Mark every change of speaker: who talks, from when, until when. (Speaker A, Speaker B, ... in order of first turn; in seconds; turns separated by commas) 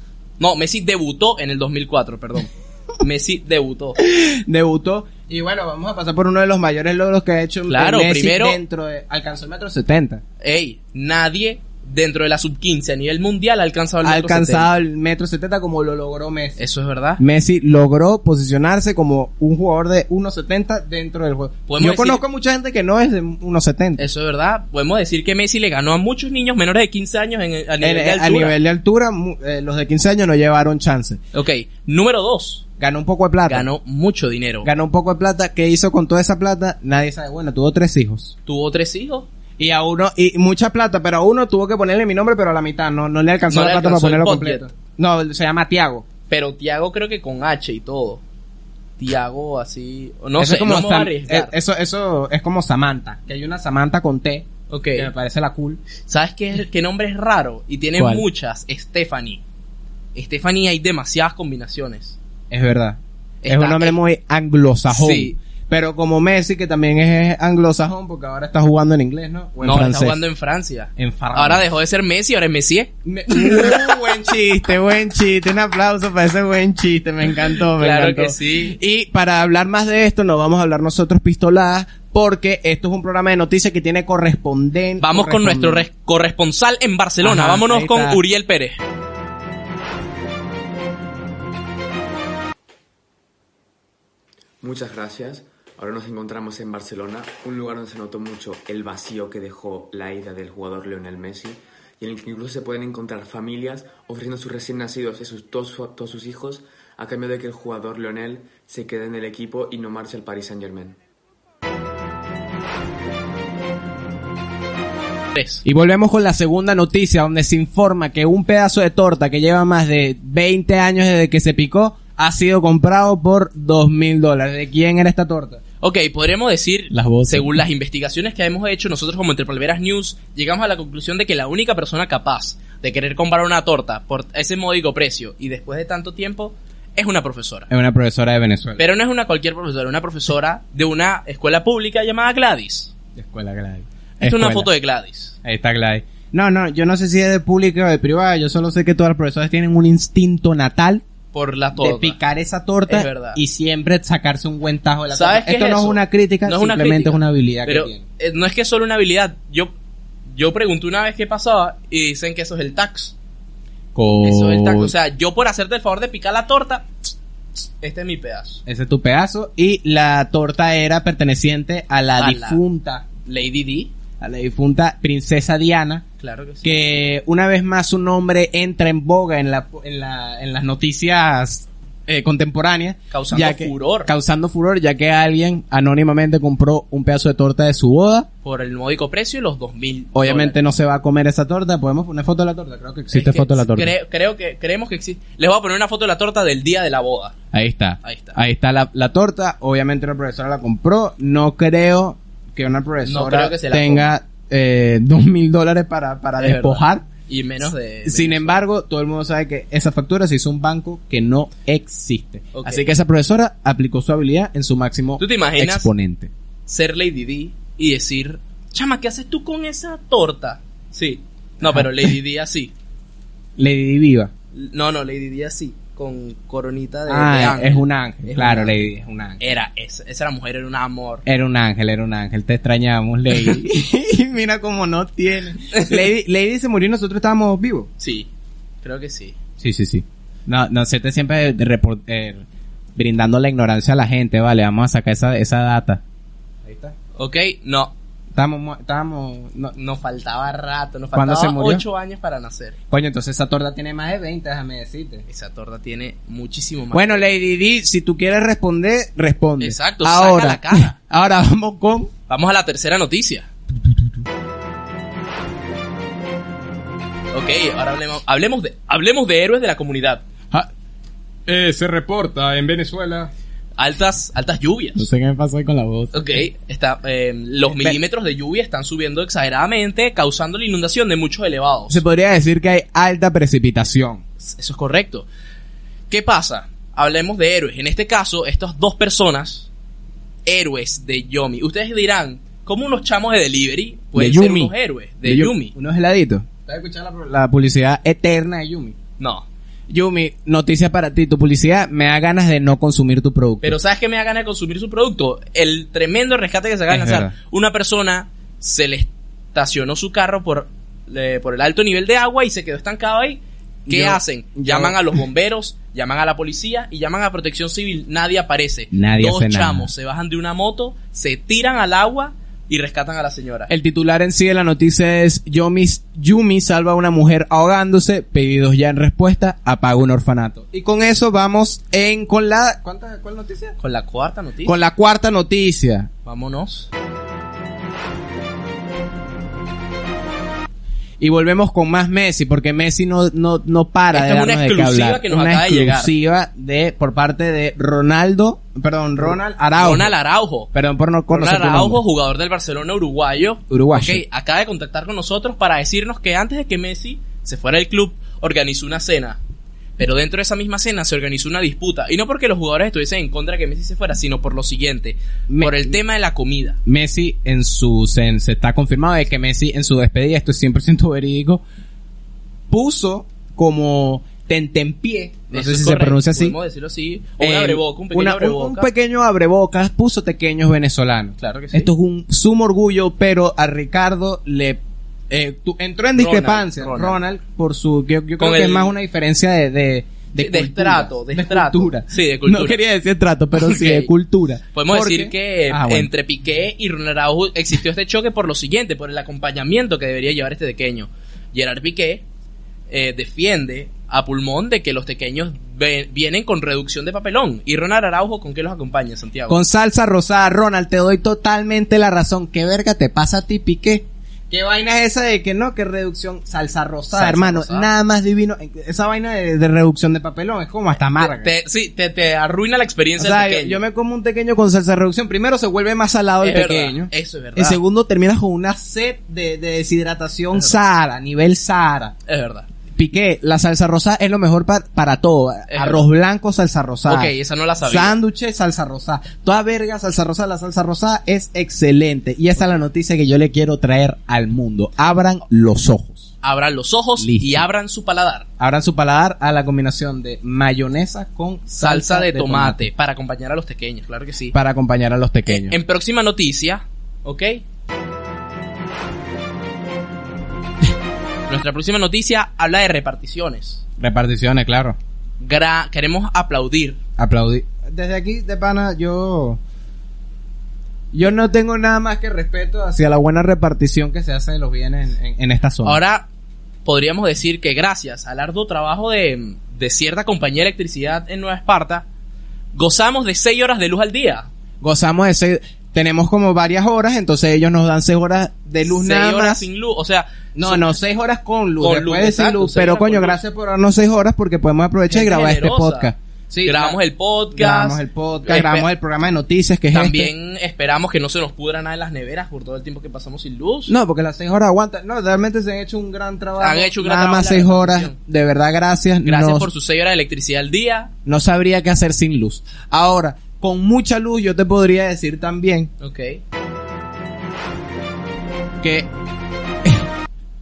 Speaker A: 0.4-4.0, Speaker B: 4.0-10.2, Speaker A: 7.7-8.6, Speaker A: 10.4-14.7, Speaker B: 14.0-16.6, Speaker A: 16.6-17.2, Speaker B: 17.2-24.1, Speaker A: 21.7-22.2, Speaker A: 24.0-28.6, Speaker B: 27.8-31.2, Speaker A: 31.3-32.6, Speaker B: 32.8-33.7, Speaker A: 33.5-34.7, Speaker B: 34.6-38.3, Speaker A: 38.5-39.3, Speaker B: 39.6-46.0, Speaker A: 43.5-44.6, Speaker A: 46.3-48.2, Speaker A: 49.0-51.5, Speaker B: 50.4-55.8, Speaker A: 54.7-55.1, Speaker A: 56.0-59.4, Speaker B: 58.0-58.3, Speaker A: 60.1-62.2, Speaker B: 62.5-70.2, Speaker A: 63.4-64.0, Speaker A: 64.9-65.3, Speaker A: 69.6-74.2, Speaker B: 71.0-71.7, Speaker B: 73.0-85.9, Speaker A: 77.6-78.8, Speaker A: 85.0-88.8, Speaker B: 87.2-88.2, Speaker C: 94.6-111.0, Speaker A: 115.3-115.6, Speaker B: 115.6-125.6, Speaker A: 125.8-137.7, Speaker B: 126.9-127.6, Speaker B: 137.7-138.8, Speaker A: 138.8-142.9, Speaker B: 143.2-144.7, Speaker A: 144.2-145.3, Speaker B: 145.4-151.0, Speaker A: 151.3-152.2, Speaker B: 151.7-158.0, Speaker A: 152.8-153.4, Speaker A: 155.1-159.7, Speaker A: 160.3-163.1, Speaker B: 163.9-164.9, Speaker A: 164.1-166.9, Speaker A: 167.6-168.6, Speaker B: 168.7-173.1, Speaker A: 172.2-172.6, Speaker A: 173.2-173.9, Speaker B: 174.2-176.0, Speaker A: 176.2-177.0, Speaker B: 176.6-188.3, Speaker A: 183.1-184.1, Speaker A: 188.4-190.6, Speaker B: 190.1-193.9, Speaker A: 193.1-197.3, Speaker B: 197.5-207.1, Speaker A: 198.0-198.4, Speaker A: 203.0-204.1, Speaker A: 206.4-208.6, Speaker B: 208.0-216.3, Speaker A: 212.5-212.8, Speaker A: 215.2-215.9, Speaker A: 216.7-222.7, Speaker B: 221.6-222.1, Speaker B: 223.6-224.3, Speaker A: 224.5-228.8, Speaker B: 227.1-229.6, Speaker A: 229.4-231.2, Speaker B: 231.2-237.9, Speaker A: 235.7-236.1, Speaker A: 238.0-238.3, Speaker A: 238.8-239.4, Speaker B: 239.6-242.4, Speaker B: 242.9-246.0, Speaker B: 246.6-246.9, Speaker A: 247.1-247.9, Speaker B: 248.3-249.8, Speaker A: 249.7-252.8, Speaker B: 251.1-251.8, Speaker B: 252.9-255.2, Speaker A: 255.3-257.3, Speaker B: 256.9-262.1, Speaker A: 259.6-260.9, Speaker A: 262.3-263.5, Speaker A: 267.3-270.2, Speaker B: 271.4-273.3, Speaker A: 273.8-275.1, Speaker B: 274.9-276.5, Speaker A: 276.1-282.0, Speaker B: 277.6-278.0, Speaker B: 281.9-284.2, Speaker A: 284.4-285.3, Speaker A: 286.1-289.7, Speaker A: 290.4-295.7, Speaker B: 294.1-299.0, Speaker A: 299.2-299.4, Speaker B: 299.9-303.8, Speaker A: 303.6-323.7, Speaker B: 306.9-307.3, Speaker B: 313.9-315.2, Speaker B: 318.9-319.9, Speaker B: 323.7-333.8, Speaker A: 333.8-334.8, Speaker B: 334.6-336.1, Speaker A: 336.2-336.9, Speaker B: 341.2-350.1, Speaker A: 344.1-346.1, Speaker A: 349.2-350.7, Speaker B: 350.7-352.0, Speaker A: 351.3-359.4, Speaker B: 353.7-354.2, Speaker A: 360.0-366.8, Speaker B: 365.5-366.0, Speaker B: 366.9-371.6, Speaker B: 372.7-376.6, Speaker A: 375.5-378.9, Speaker B: 377.4-396.1, Speaker A: 381.4-381.9, Speaker A: 386.1-387.2, Speaker A: 388.4-388.9, Speaker A: 390.3-392.8, Speaker A: 393.5-394.1, Speaker A: 394.7-402.2, Speaker A: 402.9-409.6, Speaker B: 409.5-421.5, Speaker A: 417.1-417.9, Speaker A: 421.1-423.8, Speaker B: 423.2-432.1, Speaker A: 426.4-427.8, Speaker A: 432.3-432.7, Speaker B: 432.9-446.3, Speaker A: 435.7-436.0, Speaker A: 437.1-438.2, Speaker A: 446.4-448.4, Speaker B: 447.2-447.6, Speaker B: 448.6-452.9, Speaker A: 451.8-454.5, Speaker B: 454.5-455.8, Speaker A: 455.4-457.6, Speaker A: 461.5-463.8, Speaker B: 464.0-465.0, Speaker A: 465.4-467.0, Speaker B: 467.2-469.6, Speaker B: 471.1-476.0, Speaker A: 475.8-476.3, Speaker A: 476.8-482.1, Speaker A: 482.7-484.5, Speaker B: 484.8-489.6, Speaker A: 488.8-490.9, Speaker B: 490.5-497.0, Speaker A: 491.8-493.4, Speaker A: 495.1-496.1, Speaker A: 496.6-498.9, Speaker B: 497.5-500.3, Speaker A: 499.9-503.9, Speaker B: 503.9-509.7, Speaker A: 506.6-508.2, Speaker A: 509.2-511.1, Speaker B: 511.2-515.9, Speaker A: 516.0-516.4, Speaker B: 518.8-519.1